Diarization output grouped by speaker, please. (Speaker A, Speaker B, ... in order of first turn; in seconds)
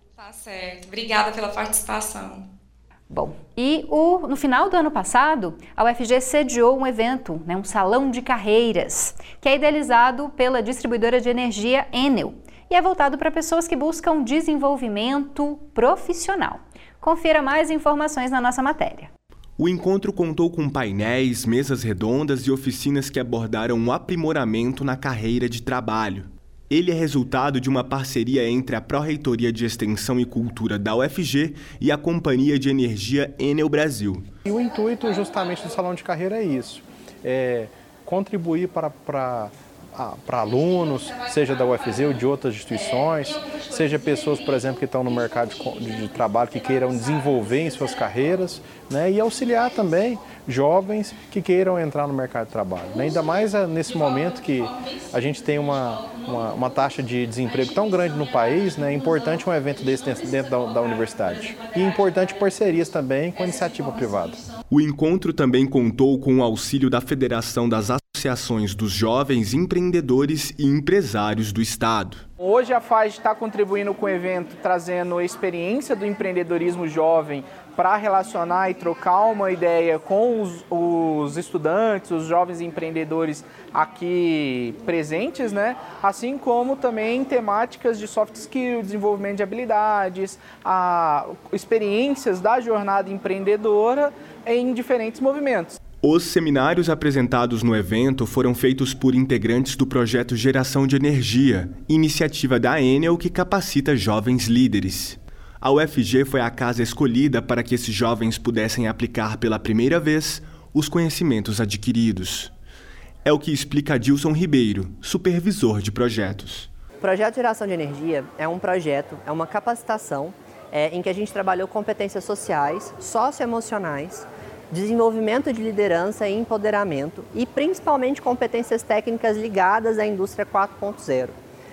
Speaker A: 0.2-2.5
Speaker B: 3.1-19.1
Speaker C: 19.6-34.3, 64.7-72.2, 96.0-112.5, 113.2-116.7
Speaker D: 34.5-64.4
Speaker E: 72.4-95.8
Speaker F: 117.0-131.4